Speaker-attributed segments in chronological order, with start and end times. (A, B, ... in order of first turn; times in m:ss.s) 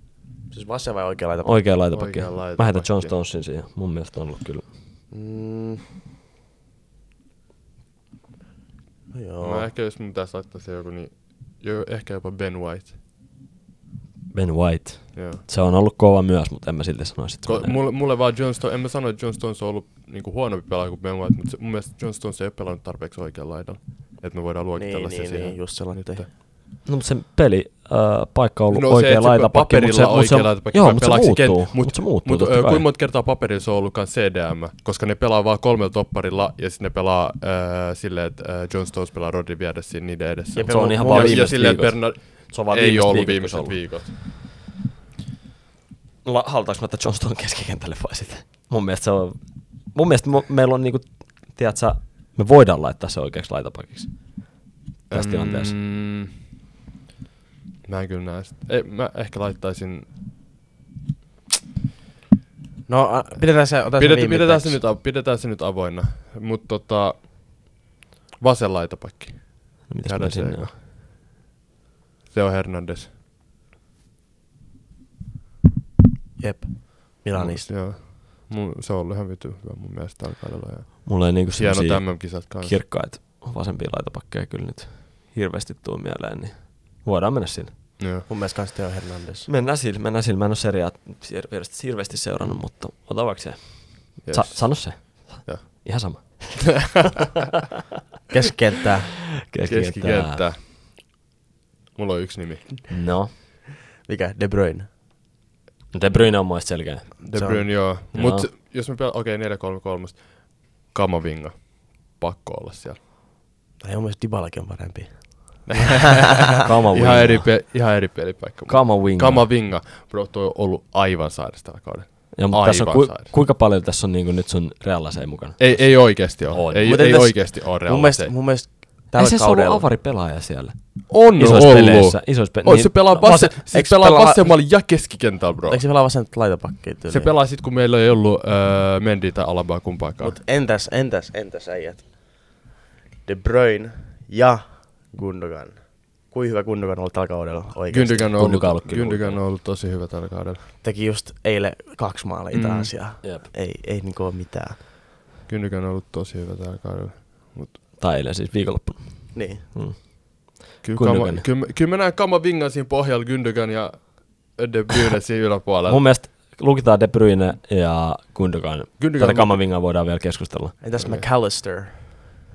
0:00.5-0:01.6 A
0:01.4-0:04.7 B
0:01.9-0:03.1 C
0:05.1-0:05.8 A
0:09.1-0:09.7 A
0:09.4-0:13.0 C
0:14.3-0:17.8 B
0:15.1-0:15.4 C
0:17.4-0:26.3 C
0:24.8-0:26.2 A
0:26.8-0:32.8 B
0:28.7-0:44.2 C
0:40.5-0:41.6 A
0:40.6-0:43.8 B
0:46.2-0:54.4 B
0:55.1-0:55.7 B
0:55.1-0:56.3 C
0:57.8-1:00.1 C
1:02.9-1:04.8 A
1:04.0-1:07.8 C
1:08.4-1:10.8 C
1:09.9-1:10.7 B
1:12.3-1:13.1 C
1:16.4-1:17.7 A
1:17.3-1:22.8 C
1:21.0-1:27.8 B
1:28.0-1:28.3 C
1:28.3-1:29.5 A
1:29.5-1:37.0 B
1:34.2-1:36.4 C
1:38.3-1:39.2 A
1:39.5-1:40.4 B
1:39.6-1:40.7 C
1:42.0-1:42.8 C
1:42.9-1:43.3 B
1:44.0-1:44.9 A
1:45.9-1:47.2 B
1:47.2-1:53.0 C
1:47.3-1:47.8 A
1:48.1-1:48.5 B
1:53.8-1:56.2 A
1:55.7-2:03.3 C
1:56.6-1:57.5 B
1:58.7-1:59.5 B
2:02.4-2:07.0 B
2:05.6-2:08.3 C
2:06.8-2:09.9 A
2:09.1-2:13.5 B
2:11.1-2:15.8 C
2:13.2-2:14.6 A
2:15.7-2:17.3 A
2:17.1-2:20.4 C
2:20.2-2:22.6 A
2:23.2-2:28.4 A
2:27.9-2:30.6 C
2:28.4-2:29.4 B
2:30.8-2:34.8 A
2:32.5-2:32.9 C
2:35.5-2:37.8 C
2:38.0-2:41.5 B
2:39.3-2:39.6 A
2:40.8-2:46.1 C
2:45.9-2:50.8 B
2:49.0-2:49.6 C
2:50.8-2:52.4 A
2:51.0-2:51.3 C